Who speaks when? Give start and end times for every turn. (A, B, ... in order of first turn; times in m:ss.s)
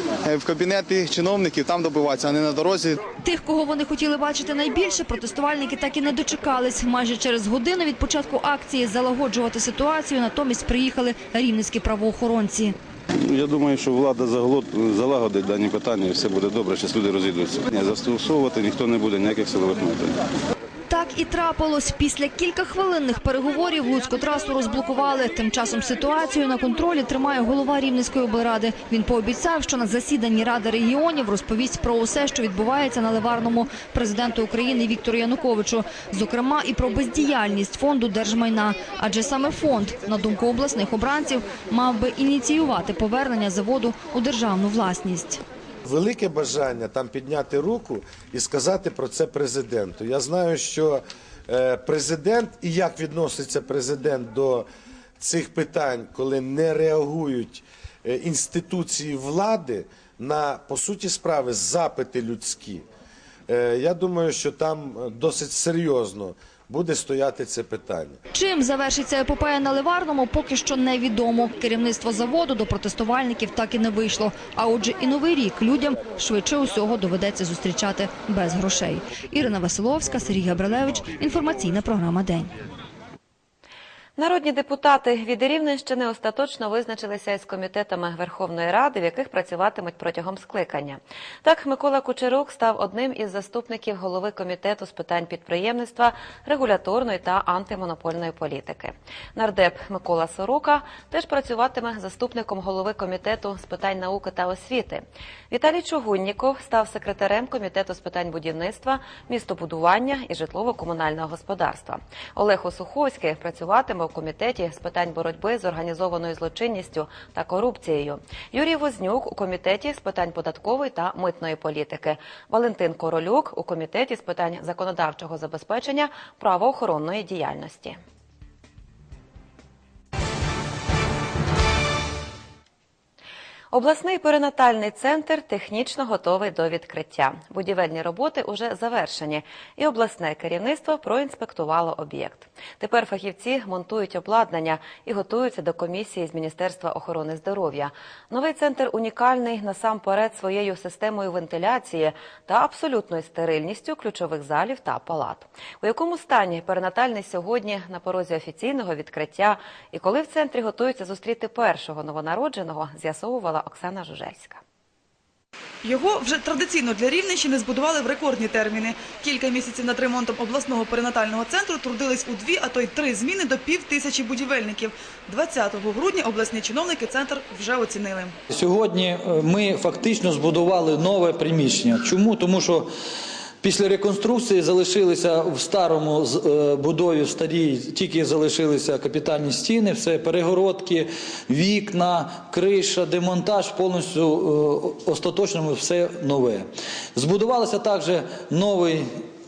0:00.2-0:03.0 A
0:03.2-0:12.8 B
0:13.2-0:20.2 C
0:20.9-0:45.4 B
0:45.9-0:54.7 D
0:55.2-1:02.8 D
1:03.5-1:08.2 D
1:08.3-1:22.5 B
1:24.2-2:08.0 E
2:13.7-2:44.6 E
2:45.8-2:58.4 F
2:58.5-3:02.9 G
3:03.6-3:19.2 G